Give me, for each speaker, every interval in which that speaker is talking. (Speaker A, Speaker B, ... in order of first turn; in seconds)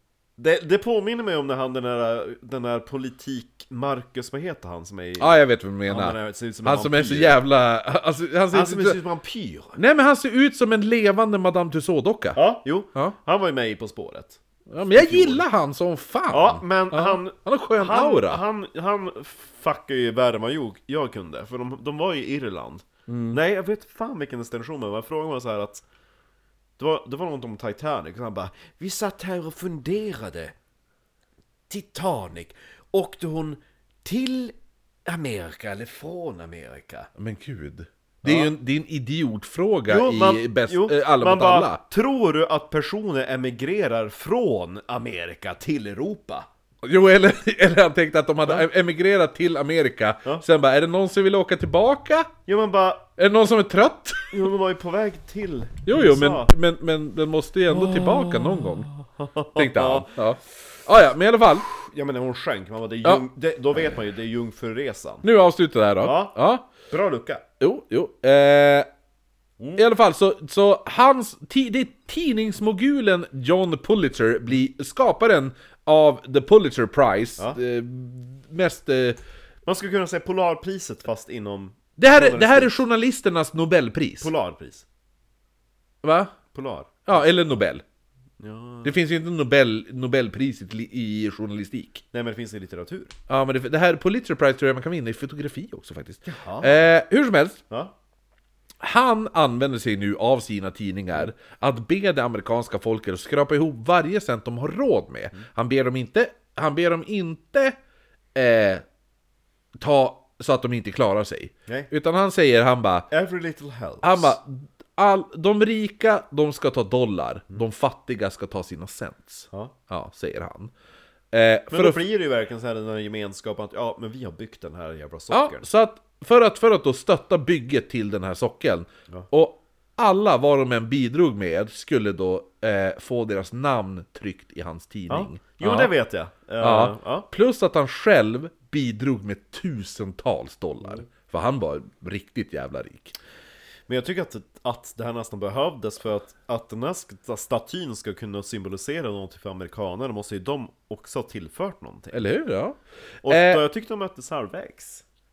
Speaker A: 0.4-7.4, 8.5-9.8, 12.3-15.4, 16.3-25.9, 26.8-30.6, 31.7-34.5, 35.1-37.1, 38.2-38.5, 39.9-46.5, 52.5-53.1, 54.3-56.5, 57.7-60.1, 61.7-65.3, 66.0-67.4, 79.7-82.8, 84.2-84.9, 86.5-87.3, 88.4-89.0, 92.1-93.1, 96.3-96.9, 113.1-114.4, 121.7-125.7, 135.1-137.3, 143.9-152.2, 153.2-155.0
Speaker B: 5.2-9.0, 9.8-12.4, 14.7-18.4, 23.1-23.4, 37.2-41.8, 46.8-52.3, 53.2-54.5, 55.9-58.9, 59.5-61.7, 65.2-66.7, 67.6-68.9, 69.8-79.2, 82.0-84.3, 86.0-86.3, 87.1-87.8, 88.8-92.0, 93.3-97.6, 98.8-107.8, 108.3-108.8, 109.8-113.1, 114.0-120.7, 121.3-122.1, 125.3-135.9, 136.6-143.2, 152.1-153.6